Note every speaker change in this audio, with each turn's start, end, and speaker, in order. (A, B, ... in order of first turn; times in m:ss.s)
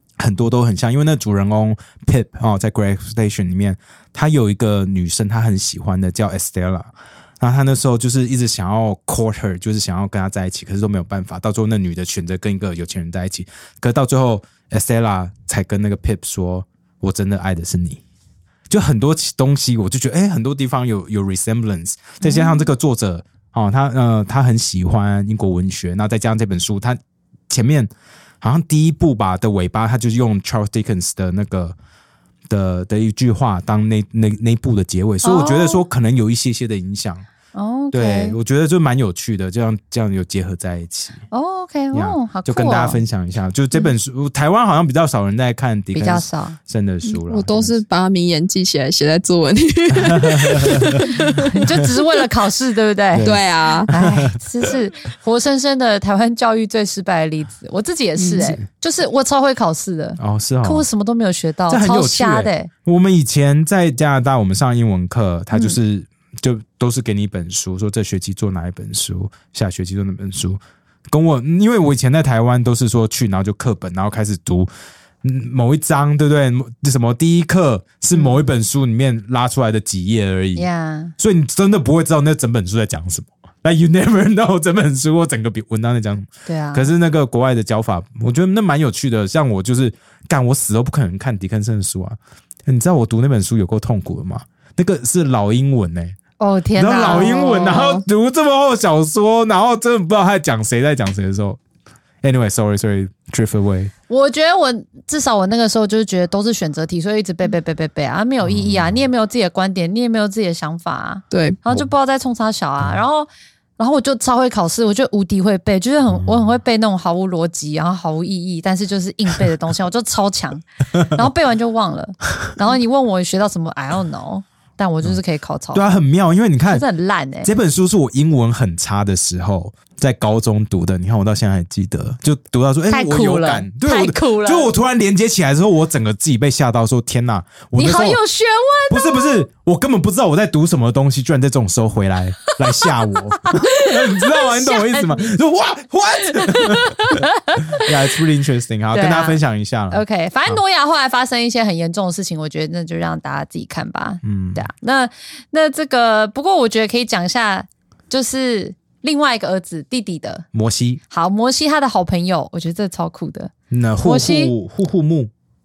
0:00.2-0:18.0 A
0:18.7-0:27.9 A
0:22.2-0:22.6 B
0:28.4-0:31.8 A
0:32.5-0:37.2 A
0:35.2-0:35.8 B
0:37.5-0:38.4 B
0:37.9-0:41.2 A
0:41.3-0:43.0 B
0:41.9-0:47.8 A
0:45.9-0:46.6 B
0:47.1-0:51.5 C
0:50.0-0:51.0 A
0:51.1-0:53.3 B
0:53.1-0:54.4 A
0:53.2-0:53.9 C
0:53.9-1:02.7 B
0:58.2-0:58.5 C
1:00.2-1:00.8 A
1:01.7-1:14.7 A
1:15.2-1:20.6 A
1:20.6-1:21.1 B
1:21.2-1:36.2 A
1:26.4-1:26.9 B
1:36.4-1:38.0 B
1:36.8-1:41.6 A
1:42.2-1:43.9 A
1:44.1-2:05.9 B
1:48.4-1:49.0 A
1:51.3-1:51.6 C
2:05.7-2:06.8 A
2:06.7-2:07.5 B
2:07.4-2:18.2 A
2:12.9-2:14.7 B
2:17.8-2:19.4 B
2:18.9-2:30.6 A
2:23.4-2:25.4 B
2:26.3-2:27.9 B
2:28.9-2:29.4 B
2:29.9-2:40.5 B
2:34.2-2:34.6 A
2:40.5-2:41.0 A
2:41.1-2:44.5 B
2:43.7-2:45.3 A